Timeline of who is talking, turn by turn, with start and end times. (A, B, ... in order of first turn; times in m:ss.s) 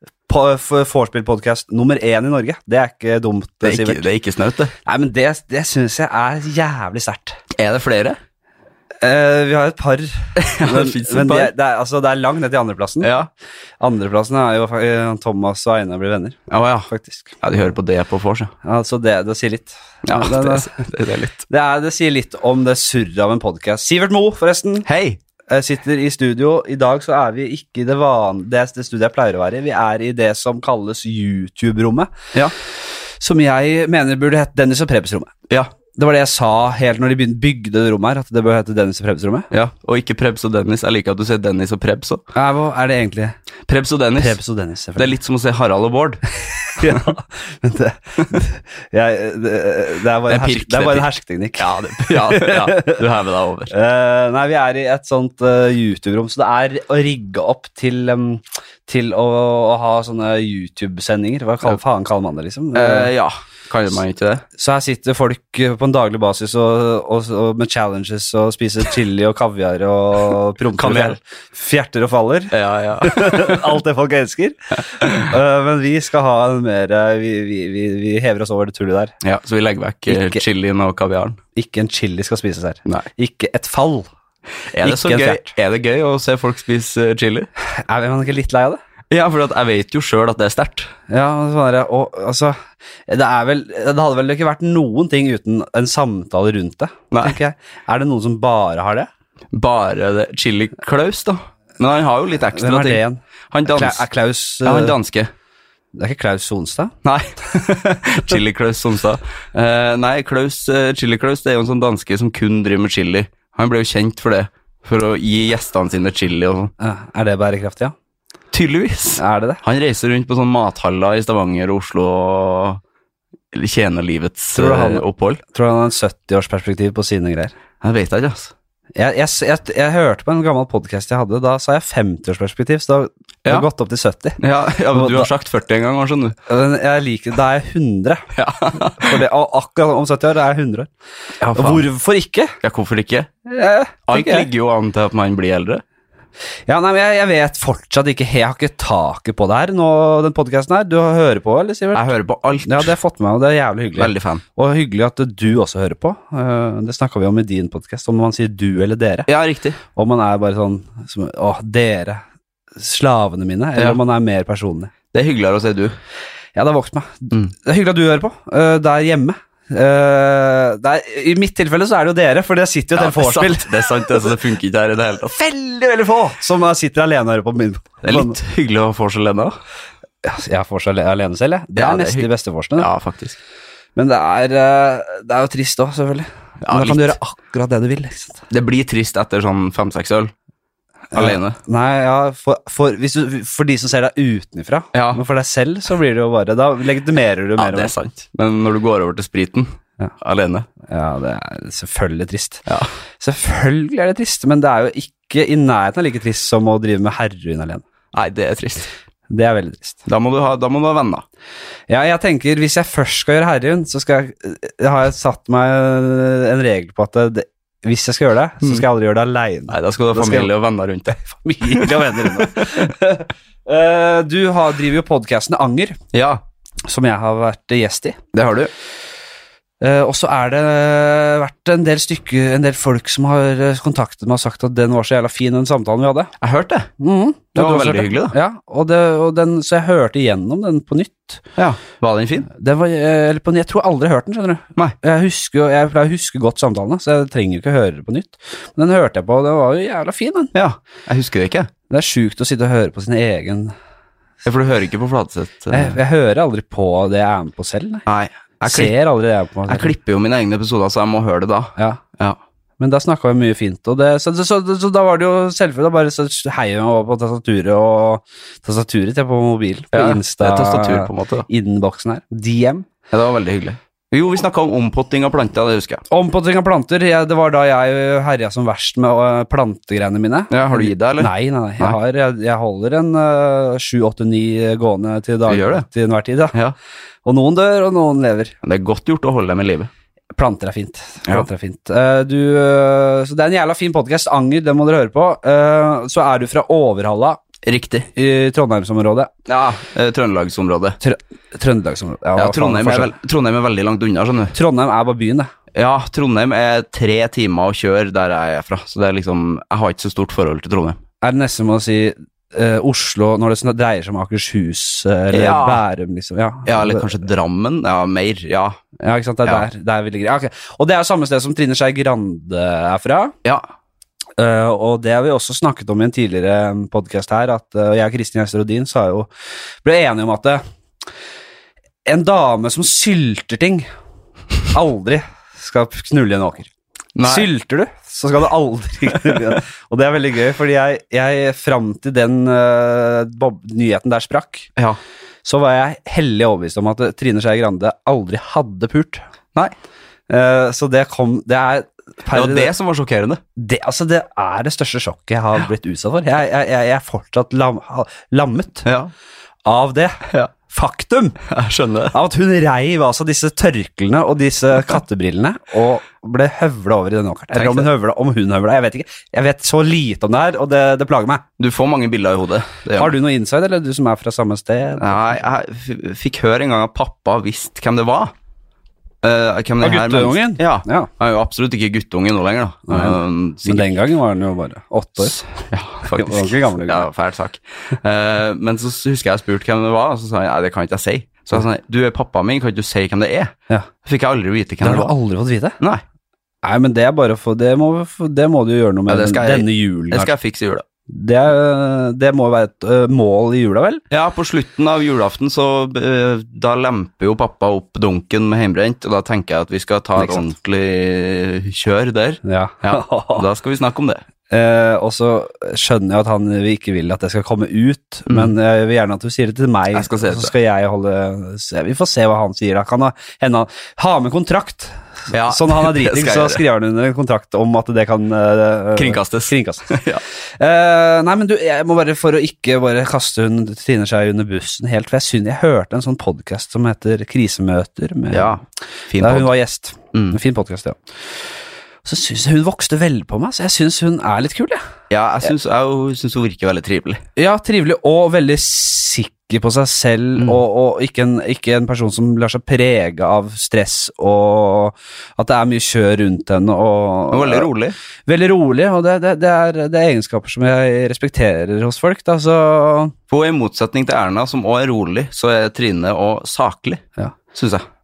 0:00.3-0:04.1 A
0:03.6-0:04.7 B
0:04.8-0:07.4 A
0:07.6-0:08.2 B
0:09.0-0:13.1 A
0:10.4-0:11.5 B
0:13.0-0:13.3 B
0:13.8-0:17.4 A
0:16.5-0:16.9 B
0:17.4-0:18.5 B
0:18.6-0:20.9 A
0:20.0-0:21.4 B
0:21.5-0:24.9 A
0:24.9-0:25.2 B
0:25.5-0:32.1 A
0:33.2-0:35.3 A
0:36.0-0:39.5 A
0:39.5-0:42.2 B
0:42.3-0:43.4 A
0:43.7-0:44.4 B
0:44.2-0:45.1 A
0:45.0-0:46.2 B
0:46.7-0:53.0 A
0:50.3-0:53.7 B
0:53.7-1:03.1 A
1:02.7-1:04.4 B
1:04.6-1:19.2 A
1:10.8-1:11.2 B
1:12.5-1:13.8 B
1:19.2-1:21.4 B
1:20.1-1:20.4 A
1:21.6-1:24.1 A
1:24.7-1:27.5 B
1:24.8-1:25.5 A
1:27.7-1:28.8 A
1:29.1-1:30.9 B
1:31.1-1:39.1 A
1:37.1-1:37.4 B
1:39.5-1:44.1 B
1:42.5-1:45.0 A
1:44.6-1:45.3 B
1:45.9-1:47.0 A
1:47.0-1:56.7 B
1:56.8-1:58.0 A
1:58.5-2:02.8 B
1:59.2-1:59.6 A
2:03.5-2:05.4 B
2:04.5-2:07.5 A
2:07.8-2:08.5 B
2:09.0-2:15.3 A
2:14.4-2:16.4 B
2:16.5-2:18.3 A
2:18.3-2:19.2 B
2:18.9-2:20.9 A
2:21.4-2:21.9 B
2:21.5-2:22.6 A
2:22.6-2:23.3 B
2:23.5-2:24.5 A
2:24.1-2:25.8 B
2:26.7-2:32.1 A
2:31.9-2:32.9 B
2:32.6-2:39.3 A
2:34.0-2:34.4 B
2:39.3-2:39.8 B
2:40.0-2:42.2 A
2:42.8-2:44.9 A
2:45.1-2:46.0 B
2:46.6-2:54.4 A
2:53.0-2:55.4 B
2:55.3-2:58.4 A
2:58.0-2:59.5 B
3:00.2-3:02.9 A
3:01.8-3:03.4 B
3:04.0-3:08.4 A
3:06.6-3:07.2 B
3:08.5-3:10.3 B
3:11.1-3:17.9 A
3:11.1-3:11.6 B
3:14.9-3:15.2 B
3:17.6-3:20.7 B
3:20.9-3:22.6 A
3:23.2-3:27.8 A
3:28.1-3:28.9 B
3:29.3-3:30.0 A
3:30.1-3:31.2 B
3:31.9-3:40.5 A
3:39.7-3:42.9 B
3:41.3-3:46.0 A
3:46.1-3:46.4 B
3:46.9-3:48.2 A
3:48.3-3:48.7 B
3:49.8-3:56.3 A
3:56.4-3:56.9 B
3:57.0-4:01.4 A
3:57.5-3:58.4 B
4:01.6-4:02.5 B
4:02.5-4:10.5 A
4:10.5-4:11.7 B
4:11.9-4:13.7 A
4:14.4-4:16.0 B
4:15.7-4:18.0 A
4:18.1-4:19.0 B
4:18.6-4:20.0 A
4:19.7-4:22.4 B
4:22.8-4:32.9 A
4:29.9-4:31.5 B
4:33.1-4:36.0 B
4:36.1-4:46.6 A
4:40.5-4:42.0 B
4:45.5-4:45.9 B
4:47.2-4:48.6 A
4:48.6-4:49.9 B
4:50.4-4:57.4 A
4:57.6-4:58.1 B
4:58.2-4:59.3 A
4:59.5-5:01.0 B
5:01.0-5:03.1 A
5:02.4-5:04.6 B
5:04.5-5:05.5 A
5:05.7-5:11.0 B
5:11.2-5:17.1 A
5:15.3-5:15.8 B
5:16.6-5:18.8 B
5:19.0-5:23.4 A
5:24.4-5:29.3 A
5:29.8-5:30.6 A
5:32.1-5:33.9 A
5:34.7-5:36.7 A
5:37.2-5:37.5 B
5:37.2-5:44.7 A
5:45.4-5:49.2 A
5:50.3-5:52.7 A
5:52.3-5:53.4 B
5:53.6-5:58.9 A
5:58.8-5:59.1 B
5:59.6-6:01.4 A
6:01.5-6:02.2 B
6:02.1-6:11.4 A
6:07.5-6:07.9 B
6:11.6-6:13.1 B
6:12.9-6:15.4 A
6:15.0-6:18.3 B
6:19.2-6:23.9 B
6:19.8-6:21.1 A
6:22.9-6:25.4 A
6:25.2-6:33.5 B
6:26.0-6:27.1 A
6:34.0-6:35.2 B
6:34.8-6:35.8 A
6:36.6-6:40.3 A
6:39.1-6:40.8 B
6:41.1-6:44.0 A
6:44.1-6:54.2 B
6:50.2-6:50.4 A
6:52.4-6:53.4 A
6:54.5-7:10.0 A
6:58.3-6:58.5 B
6:59.9-7:00.5 B
7:05.3-7:06.6 B
7:09.0-7:10.2 B
7:10.6-7:18.6 A
7:18.3-7:19.5 B
7:19.2-7:21.0 A
7:22.0-7:24.8 A
7:25.1-7:27.2 B
7:27.4-7:37.7 A
7:37.3-7:38.0 B
7:38.3-7:43.2 A
7:43.3-7:47.0 B
7:47.5-7:47.8 B